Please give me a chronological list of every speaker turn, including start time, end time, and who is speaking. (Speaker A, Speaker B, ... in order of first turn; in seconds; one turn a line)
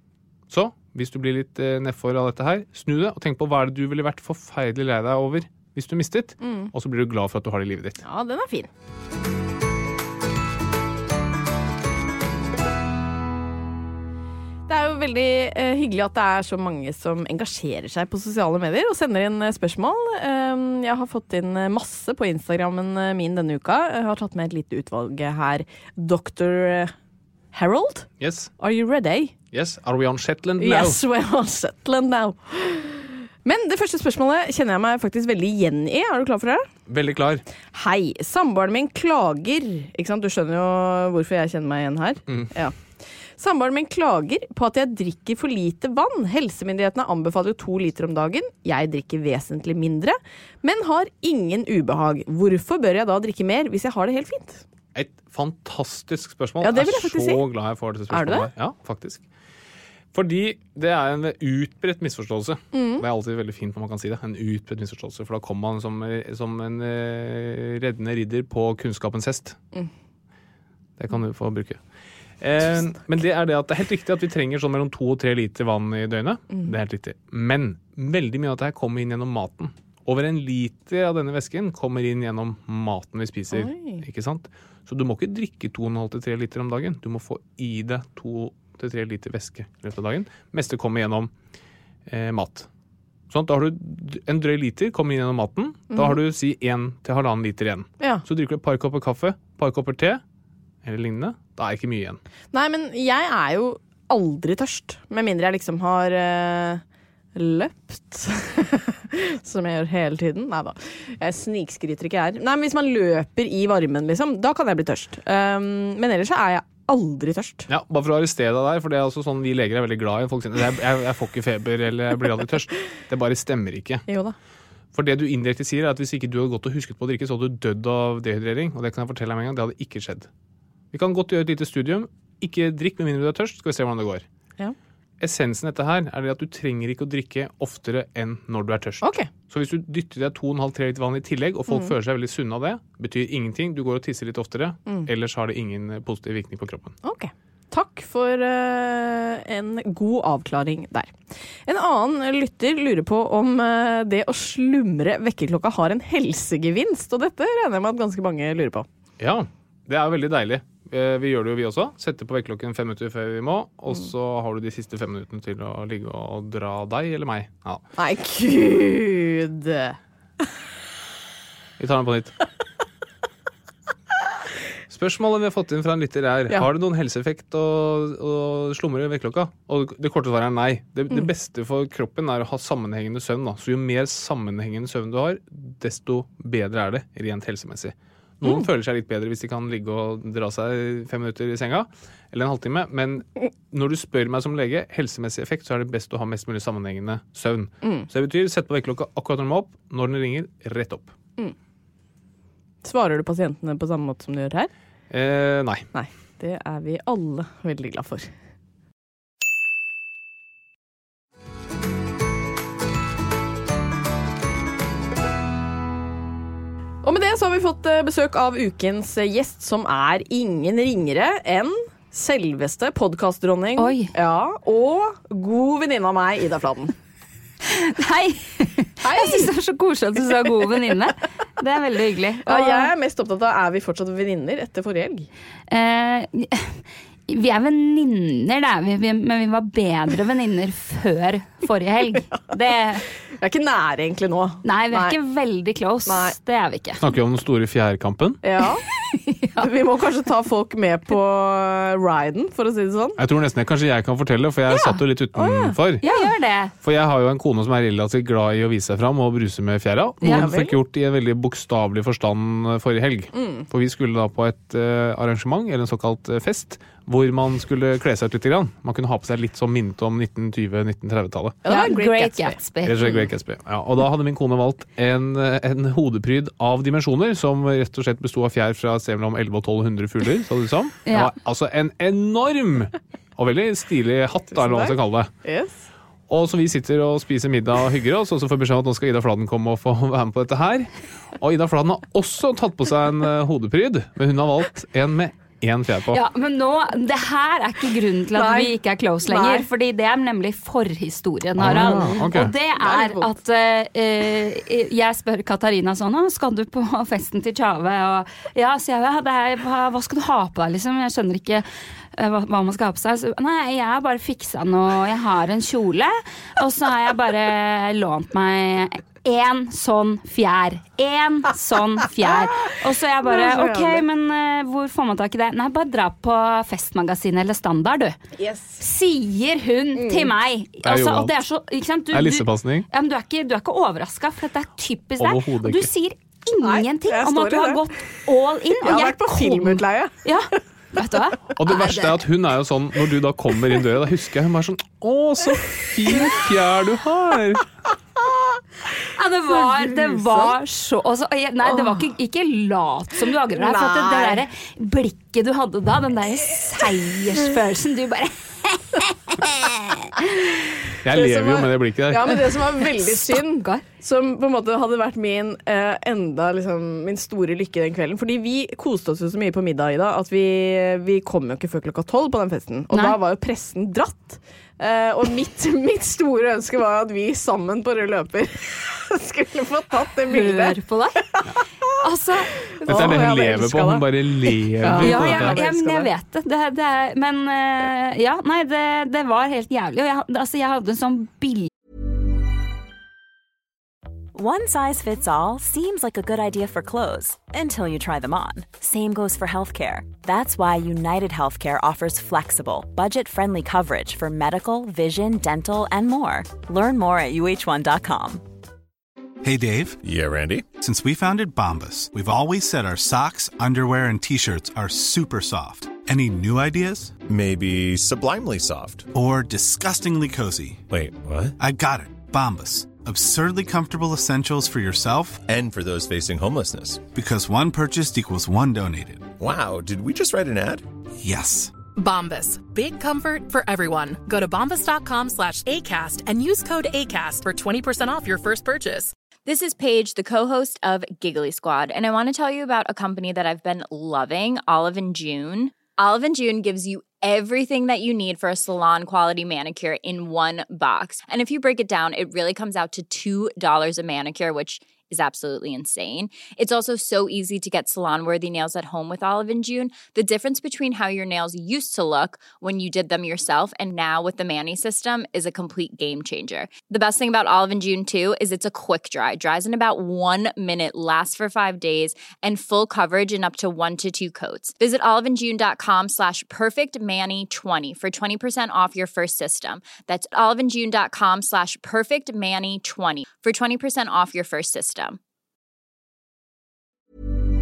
Speaker A: 0.5-8.0
Speaker B: 6.4-6.7
Speaker B: 8.0-8.7
Speaker B: 14.7-26.9
Speaker B: 27.5-28.1
Speaker A: 28.2-28.5
Speaker B: 28.6-29.4
Speaker A: 29.5-31.0
Speaker B: 30.6-36.7
Speaker A: 36.9-37.4
Speaker B: 37.7-42.8
Speaker B: 43.4-54.6
Speaker A: 55.0-59.2
Speaker B: 56.6-57.4
Speaker B: 58.1-58.5
Speaker A: 60.1-69.6
Speaker B: 62.7-63.0
Speaker A: 71.0-71.8
Speaker A: 72.4-91.3
Speaker B: 83.5-84.0
Speaker A: 92.1-92.7
Speaker A: 93.3-100.2
Speaker A: 100.8-102.2
Speaker B: 102.5-106.8
Speaker B: 107.3-117.7
Speaker A: 117.7-124.1
Speaker B: 124.1-124.3
Speaker A: 124.9-130.3
Speaker A: 130.9-134.2
Speaker A: 135.2-146.9
Speaker B: 139.0-139.3
Speaker B: 141.7-141.9
Speaker B: 147.0-158.9
Speaker A: 159.2-167.8
Speaker B: 168.0-170.0
Speaker A: 171.8-172.4
Speaker A: 174.9-201.1
Speaker B: 197.8-198.1
Speaker B: 202.8-204.7
Speaker A: 205.1-205.9
Speaker B: 205.9-208.3
Speaker B: 217.0-226.9
Speaker C: 223.8-224.1
Speaker C: 227.7-232.9
Speaker B: 229.0-229.5
Speaker B: 232.5-235.3
Speaker C: 235.7-236.8
Speaker C: 237.3-243.0
Speaker B: 243.4-245.2
Speaker C: 244.6-247.0
Speaker B: 246.1-246.3
Speaker A: 247.0-248.4
Speaker B: 248.4-248.8
Speaker C: 249.1-249.7
Speaker B: 249.6-253.2
Speaker A: 253.2-256.0
Speaker C: 254.7-255.0
Speaker B: 255.4-255.8
Speaker C: 256.0-256.7
Speaker A: 256.8-271.6
Speaker C: 260.2-260.5
Speaker B: 260.2-260.7
Speaker B: 263.3-263.7
Speaker B: 271.6-272.6
Speaker C: 271.7-273.2
Speaker A: 272.8-285.3
Speaker C: 281.1-281.3
Speaker B: 284.6-285.8
Speaker A: 286.3-296.2
Speaker C: 296.1-328.2
Speaker B: 298.4-298.7
Speaker B: 299.2-299.7
Speaker A: 301.6-302.5
Speaker B: 301.7-302.3
Speaker B: 302.8-303.3
Speaker B: 323.2-324.1
Speaker B: 328.4-328.8
Speaker C: 328.8-342.2
Speaker B: 330.0-330.3
Speaker A: 330.8-331.4
Speaker A: 332.1-332.9
Speaker A: 335.2-335.9
Speaker B: 336.6-337.8
Speaker B: 338.8-340.2
Speaker A: 341.6-347.6
Speaker C: 349.2-360.1
Speaker B: 349.6-350.6
Speaker B: 351.6-352.0
Speaker B: 353.5-354.4
Speaker A: 361.0-362.6
Speaker B: 361.1-380.8
Speaker C: 363.0-363.8
Speaker C: 372.9-373.2
Speaker C: 380.3-381.2
Speaker C: 382.0-382.5
Speaker B: 382.7-384.1
Speaker A: 382.9-385.6
Speaker B: 384.8-386.1
Speaker C: 384.9-391.7
Speaker D: 394.3-408.4
Speaker E: 409.4-410.0
Speaker F: 410.0-410.7
Speaker E: 410.7-417.2
Speaker F: 417.3-419.1
Speaker E: 419.1-420.9
Speaker F: 420.9-421.6
Speaker E: 421.6-425.4
Speaker F: 425.4-427.1
Speaker E: 427.1-429.4
Speaker F: 429.4-430.9
Speaker E: 431.2-431.7
Speaker G: 431.9-439.1
Speaker H: 439.5-485.2